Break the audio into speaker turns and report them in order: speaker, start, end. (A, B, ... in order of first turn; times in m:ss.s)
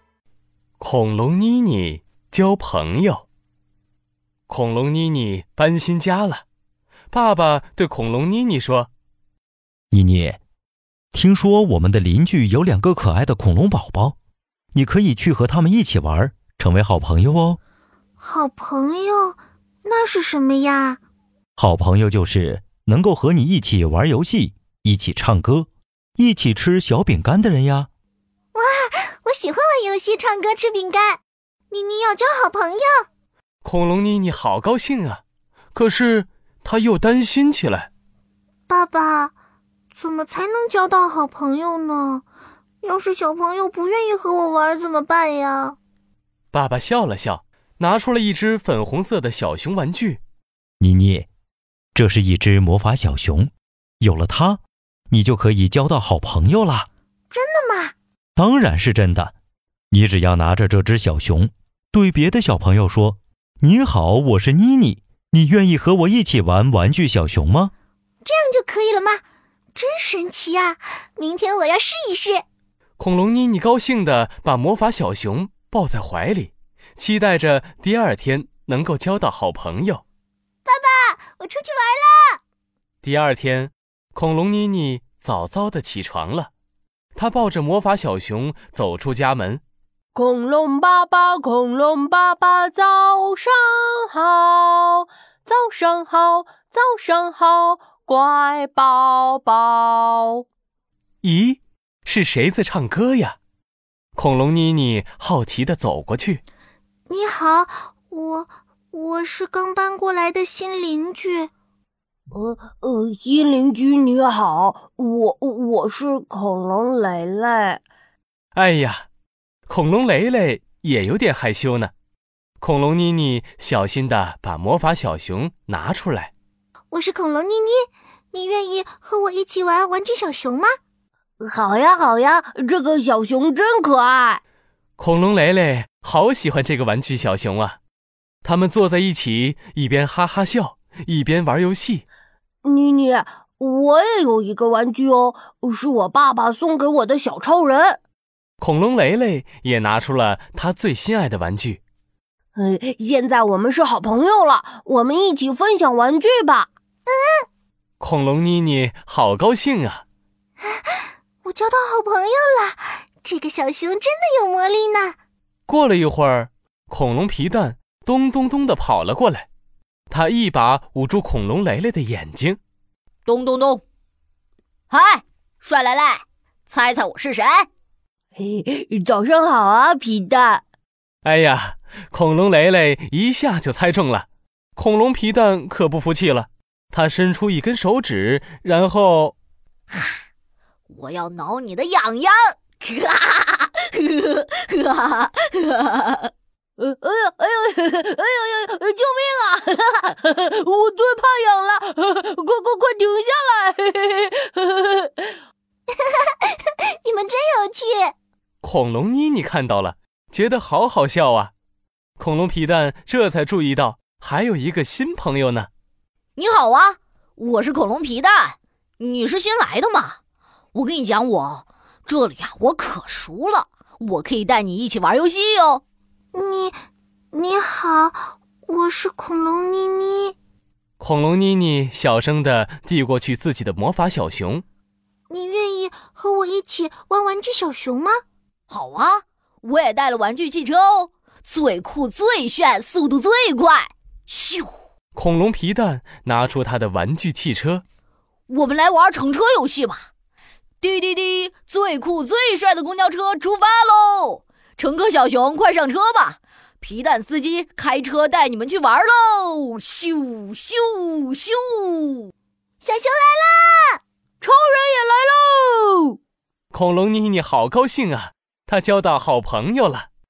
0:00.8-0:03.2 A
0:04.5-0:06.4 A
0:07.1-0:08.9 A
0:09.9-0:10.4 B
0:11.1-0:14.2 B
0:14.7-0:17.6 B
0:18.2-0:21.0 C
0:21.6-0:27.9 B
0:28.5-0:31.2 C
0:31.7-0:33.0 C
0:33.6-0:35.2 A
0:35.7-0:37.9 A
0:38.7-0:39.3 C
0:39.9-0:42.2 C
0:42.8-0:45.8 C
0:46.5-0:50.2 A
0:50.8-0:51.3 B
0:51.9-0:56.9 B
0:57.3-0:57.9 C
0:58.3-0:59.3 B
0:59.9-1:07.7 B
1:08.2-1:09.2 C
1:09.7-1:12.4 C
1:13.0-1:20.0 A
1:20.6-1:22.4 C
1:23.0-1:26.5 A
1:27.1-1:29.6 A
1:30.1-1:40.4 D
1:41.2-1:43.4 A
1:44.2-1:46.4 A
1:47.1-1:51.5 C
1:52.3-1:57.8 D
1:58.6-1:59.0 A
1:59.7-2:01.9 A
2:02.6-2:06.3 A
2:06.9-2:10.7 C
2:11.4-2:14.4 D
2:15.0-2:17.8 A
2:18.4-2:22.0 A
2:22.6-2:28.0 D
2:28.6-2:31.8 A
2:32.6-2:36.7 D
2:37.1-2:37.4 C
2:38.0-2:40.0 A
2:40.6-2:45.2 C
2:45.7-2:49.5 A
2:50.1-2:52.6 A
2:53.2-2:53.8 E
2:54.9-2:57.7 E
2:58.4-3:00.6 D
3:01.2-3:09.3 A
3:09.9-3:10.2 E
3:10.9-3:16.3 E
3:16.8-3:25.3 D
3:26.0-3:28.1 C
3:28.6-3:31.5 A
3:32.2-3:35.7 A
3:36.4-3:40.2 E
3:40.7-3:45.8 E
3:46.3-3:46.8 C
3:47.3-3:50.3 C
3:51.0-3:54.6 A
3:55.3-3:58.2 C
3:58.7-4:04.8 E
4:05.1-4:07.8 A
4:08.5-4:10.1 E
4:10.8-4:22.3 E
4:22.8-4:24.0 C
4:24.4-4:26.2 D
4:26.7-4:30.1 A